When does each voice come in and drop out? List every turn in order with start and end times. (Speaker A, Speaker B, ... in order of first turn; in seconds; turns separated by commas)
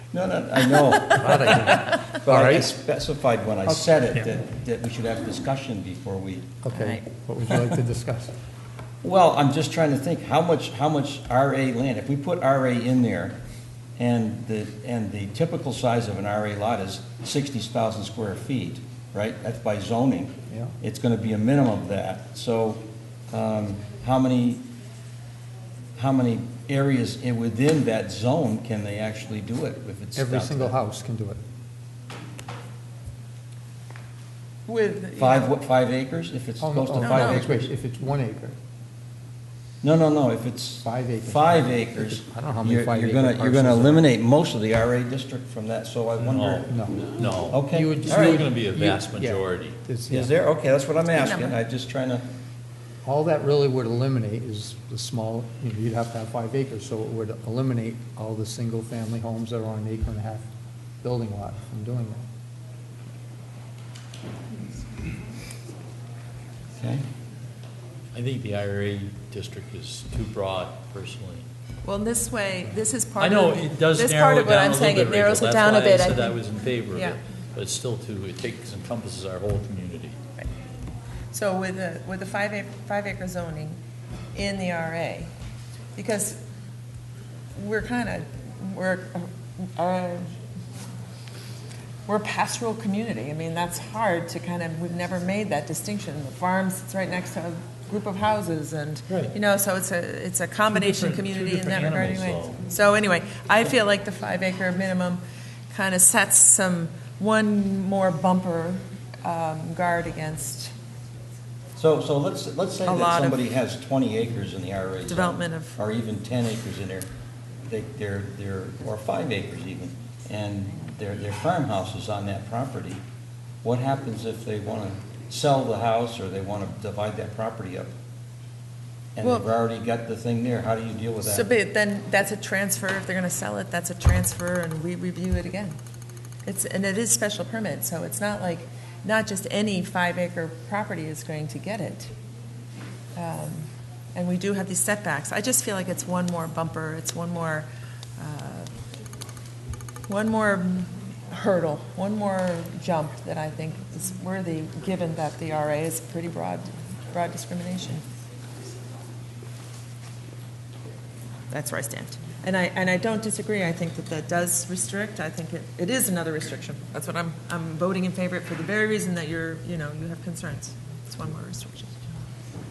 Speaker A: 0.1-6.5, Speaker B: 0.6-2.1, Speaker C: 1.2-2.7, Speaker C: 6.6-8.3, Speaker B: 6.7-7.6, Speaker A: 9.0-13.4, Speaker A: 14.0-24.7, Speaker C: 20.5-20.8, Speaker A: 26.0-30.8, Speaker C: 30.1-31.4, Speaker B: 34.7-35.5, Speaker A: 35.2-37.7, Speaker C: 36.6-38.6, Speaker B: 37.0-37.5, Speaker A: 39.8-46.8, Speaker C: 40.8-44.0, Speaker D: 46.2-49.8, Speaker C: 46.7-50.3, Speaker A: 47.5-48.5, Speaker A: 50.1-52.2, Speaker B: 51.1-51.5, Speaker C: 53.0-60.5, Speaker C: 61.0-62.2, Speaker A: 66.8-67.0, Speaker D: 68.1-71.5, Speaker B: 71.8-77.2, Speaker D: 73.2-80.1, Speaker B: 81.3-83.8, Speaker B: 84.3-85.3, Speaker B: 86.0-86.4, Speaker B: 87.5-90.3, Speaker B: 92.1-110.7, Speaker D: 99.1-99.3, Speaker D: 100.7-102.6, Speaker A: 111.8-117.1, Speaker B: 112.9-113.4, Speaker B: 115.1-115.8, Speaker A: 117.7-123.0, Speaker A: 123.6-127.9, Speaker A: 129.2-131.5, Speaker B: 131.2-135.8, Speaker B: 136.4-142.1, Speaker B: 143.1-148.7, Speaker B: 150.1-158.0, Speaker B: 161.5-171.9